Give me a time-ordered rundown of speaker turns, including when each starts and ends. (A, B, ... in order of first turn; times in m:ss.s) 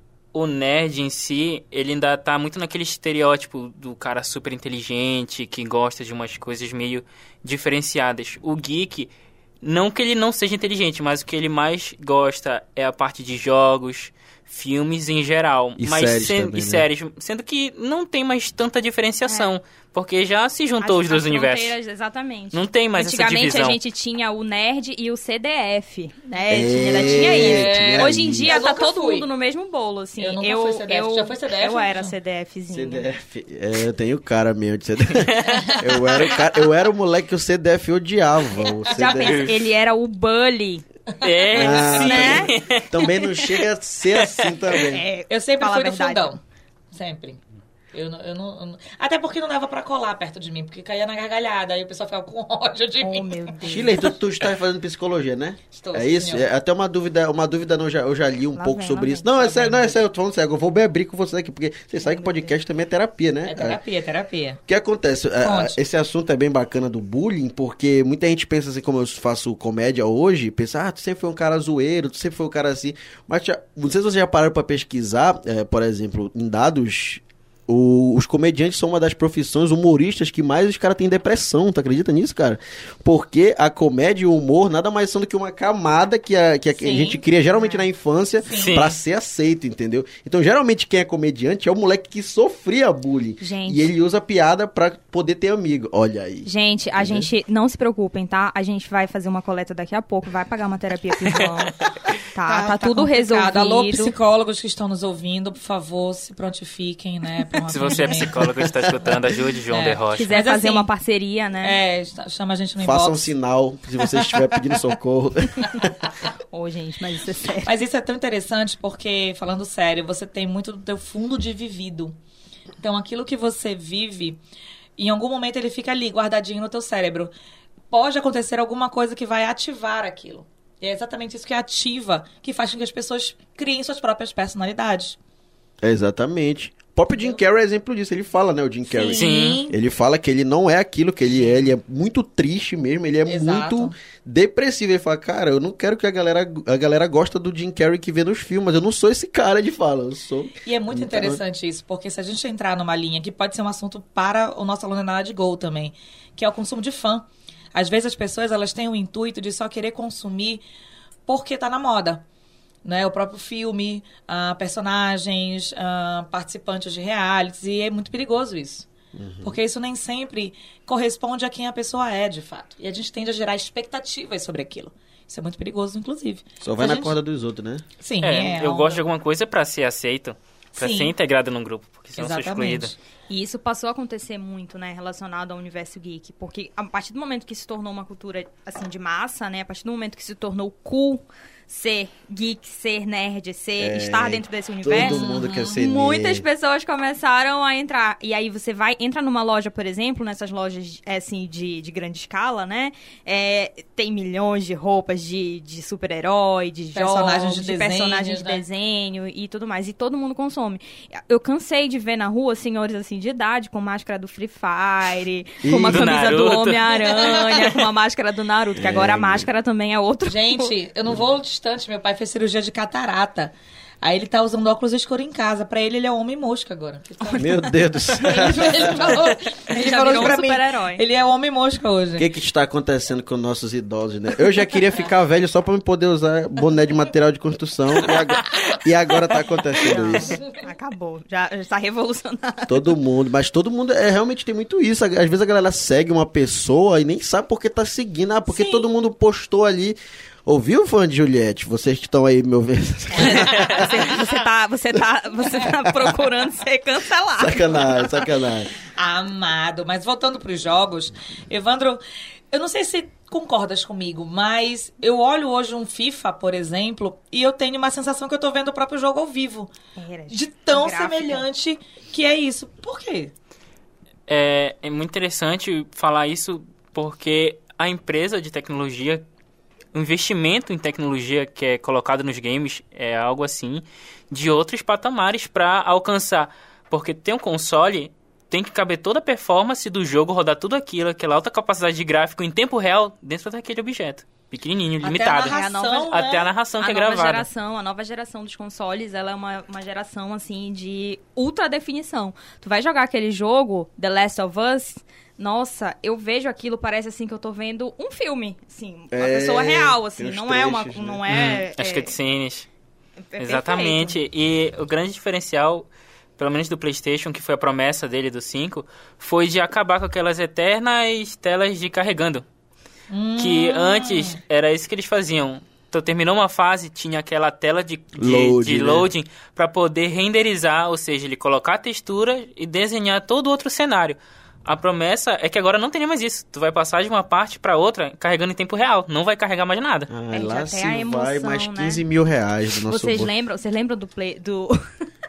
0:00.3-0:21.8 A
0:15.8-0:16.9 B
0:20.8-0:33.1 C
0:22.5-0:23.8 A
0:26.5-0:28.6 B
0:26.9-0:29.3 D
0:30.2-0:32.1 D
0:32.7-0:39.5 B
0:35.1-0:35.7 A
0:35.5-0:36.0 D
0:38.8-0:39.2 D
0:38.9-0:40.8 C
0:39.2-0:39.5 A
0:41.2-0:43.4 A
0:41.5-0:45.0 B
0:41.5-0:42.5 C
0:44.1-0:44.7 A
0:44.7-0:46.3 C
0:45.3-0:46.4 D
0:46.9-0:47.4 D
0:47.9-0:53.9 D
0:53.0-0:54.1 C
0:53.6-1:03.8 B
0:55.7-0:56.5 D
0:58.6-0:59.7 C
0:59.4-1:00.0 D
1:02.0-1:02.5 C
1:03.4-1:04.6 D
1:04.7-1:37.3 B
1:05.4-1:05.8 D
1:26.8-1:27.2 D
1:28.4-1:28.8 D
1:28.5-1:28.9 A
1:33.4-1:33.9 C
1:36.4-1:44.1 C
1:42.4-1:48.4 D
1:47.7-1:50.4 A
1:49.7-1:50.9 D
1:50.1-1:51.8 C
1:51.6-1:53.3 D
1:52.8-1:55.9 B
1:56.5-1:57.7 C
1:57.6-2:02.1 D
2:02.8-2:04.4 D
2:05.0-2:07.3 D
2:07.9-2:15.2 D
2:15.8-2:31.4 B
2:18.9-2:19.7 D
2:19.1-2:19.6 A
2:21.3-2:21.7 D
2:23.2-2:23.9 D
2:30.6-2:40.6 D
2:41.3-2:42.2 D
2:42.8-2:48.9 D
2:49.1-2:49.6 B
2:49.4-2:57.1 D
2:56.6-2:57.8 B
2:58.0-2:59.0 D
2:58.2-3:02.9 A
3:00.8-3:01.1 D
3:02.2-3:03.0 D
3:03.3-3:40.7 C
3:13.8-3:16.4 B
3:14.9-3:15.8 D
3:26.9-3:28.6 D
3:35.6-3:36.2 B
3:35.8-3:37.4 A
3:37.2-3:37.7 D
3:38.8-3:39.5 B
3:40.2-3:52.2 D
3:47.3-3:49.2 B
3:48.2-3:51.0 C
3:52.2-4:00.4 B
3:59.8-4:02.9 C
4:00.1-4:00.6 D
4:02.7-4:14.1 B
4:08.5-4:08.8 C
4:13.1-4:18.2 C
4:17.4-4:18.7 B
4:18.9-4:29.7 D
4:30.0-4:31.4 C
4:30.3-4:33.3 D
4:34.3-4:39.2 A
4:39.9-4:57.5 A
4:55.0-4:56.3 D
4:55.4-5:12.1 C
5:09.1-5:11.2 B
5:11.3-5:12.7 A
5:13.3-5:14.2 C
5:13.4-5:22.4 A
5:23.1-5:24.4 D
5:23.4-5:40.1 A
5:28.2-5:29.1 B
5:40.1-5:43.3 B
5:40.3-5:42.0 C
5:42.8-5:44.8 C